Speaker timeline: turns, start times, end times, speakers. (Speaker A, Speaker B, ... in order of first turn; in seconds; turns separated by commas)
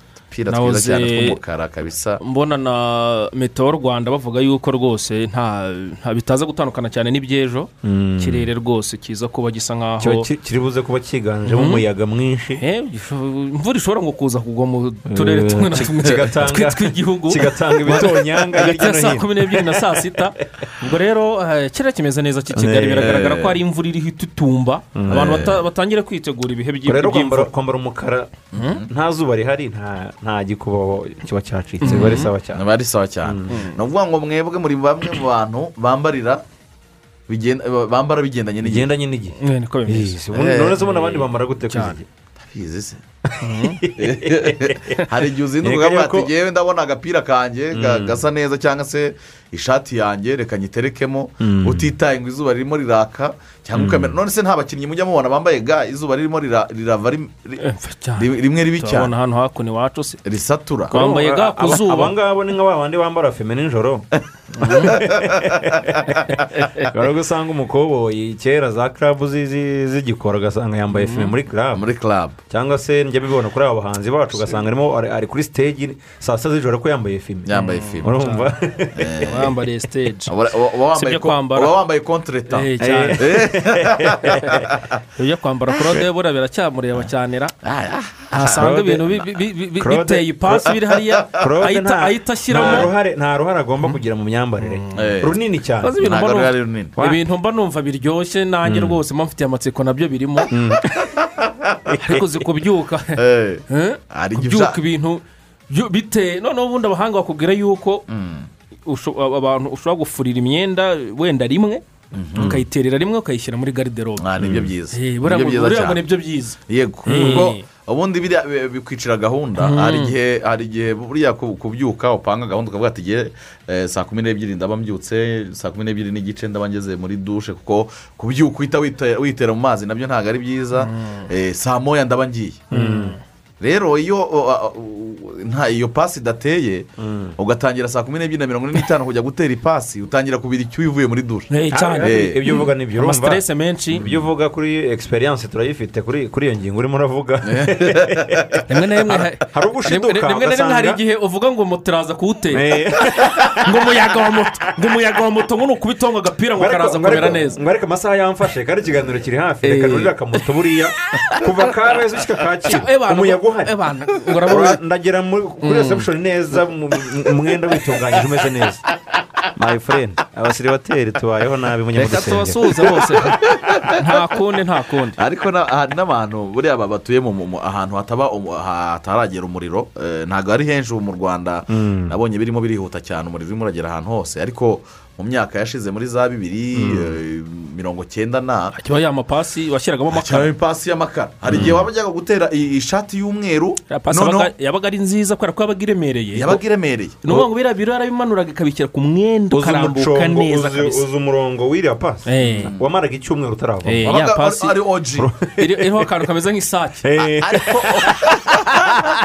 Speaker A: 0.3-2.2, Speaker B: 0.5-1.4, Speaker B: 2.2-10.3, Speaker C: 7.8-8.5, Speaker C: 10.0-12.6, Speaker B: 11.5-11.8, Speaker B: 12.6-27.5, Speaker C: 15.1-20.0, Speaker C: 22.5-23.2, Speaker A: 23.0-23.5, Speaker C: 24.9-25.4, Speaker A: 25.1-25.6, Speaker C: 26.9-32.6, Speaker B: 28.5-28.8, Speaker A: 28.5-28.9, Speaker B: 31.8-32.3, Speaker A: 32.0-36.4, Speaker C: 33.2-33.5, Speaker A: 37.3-38.9, Speaker C: 38.6-42.0, Speaker B: 39.4-40.2, Speaker A: 40.3-40.8, Speaker B: 40.9-42.0, Speaker A: 42.4-43.0, Speaker B: 43.4-43.8, Speaker C: 43.5-45.0, Speaker A: 44.0-57.6, Speaker C: 45.6-46.3, Speaker C: 47.7-48.2, Speaker C: 51.4-51.9, Speaker C: 53.7-54.2, Speaker B: 57.6-60.2, Speaker A: 58.2-59.1, Speaker A: 60.2-60.9, Speaker C: 60.9-66.2, Speaker B: 60.9-62.1, Speaker B: 64.6-64.9, Speaker A: 64.9-65.6, Speaker C: 66.8-71.8, Speaker B: 70.9-71.3, Speaker A: 71.7-72.4, Speaker C: 72.5-79.4, Speaker A: 77.5-78.2, Speaker B: 77.5-78.5, Speaker A: 79.0-79.5, Speaker B: 79.2-80.3, Speaker A: 80.3-84.8, Speaker B: 80.9-81.7, Speaker B: 82.5-83.4, Speaker C: 82.8-84.7, Speaker B: 85.2-87.5, Speaker A: 87.6-88.7, Speaker C: 88.3-90.7, Speaker B: 88.3-92.9, Speaker C: 91.3-96.0, Speaker A: 92.6-92.8, Speaker B: 94.6-95.2, Speaker A: 94.9-95.3, Speaker B: 95.8-100.5, Speaker A: 96.0-96.9, Speaker C: 98.6-99.0, Speaker C: 100.5-100.8, Speaker A: 101.4-101.8, Speaker C: 101.9-102.2, Speaker B: 102.0-108.0, Speaker A: 103.1-104.8, Speaker A: 108.1-108.5, Speaker B: 108.8-111.8, Speaker A: 112.1-112.6, Speaker B: 112.3-114.2, Speaker A: 114.2-116.0, Speaker C: 114.4-114.7, Speaker B: 114.9-116.5, Speaker A: 116.7-132.7, Speaker C: 117.1-117.5, Speaker B: 117.1-117.6, Speaker B: 119.6-120.1, Speaker B: 130.8-131.3, Speaker C: 132.7-133.2, Speaker B: 132.7-133.2, Speaker A: 133.6-142.7, Speaker C: 137.0-137.3, Speaker B: 141.5-144.0, Speaker C: 141.7-143.4, Speaker C: 143.9-148.6, Speaker A: 144.0-144.3, Speaker A: 147.4-148.6, Speaker B: 148.7-157.6, Speaker C: 149.4-151.0, Speaker C: 152.5-153.7, Speaker C: 156.6-163.7, Speaker B: 159.6-160.1, Speaker B: 162.6-164.8, Speaker C: 164.5-168.8, Speaker B: 165.6-166.1, Speaker C: 169.5-173.3, Speaker B: 172.0-175.2, Speaker A: 173.5-173.9, Speaker A: 175.2-188.7, Speaker C: 181.7-182.1, Speaker C: 186.7-187.2, Speaker B: 188.8-190.5, Speaker A: 190.1-194.5, Speaker C: 191.5-191.9, Speaker B: 193.9-196.6, Speaker A: 196.3-197.2, Speaker B: 197.2-201.0, Speaker C: 199.5-204.1, Speaker B: 202.3-202.7, Speaker A: 202.6-202.8, Speaker B: 203.8-204.7, Speaker A: 204.0-205.3, Speaker C: 205.2-206.1, Speaker B: 205.6-207.2, Speaker C: 207.0-208.2, Speaker A: 207.4-208.6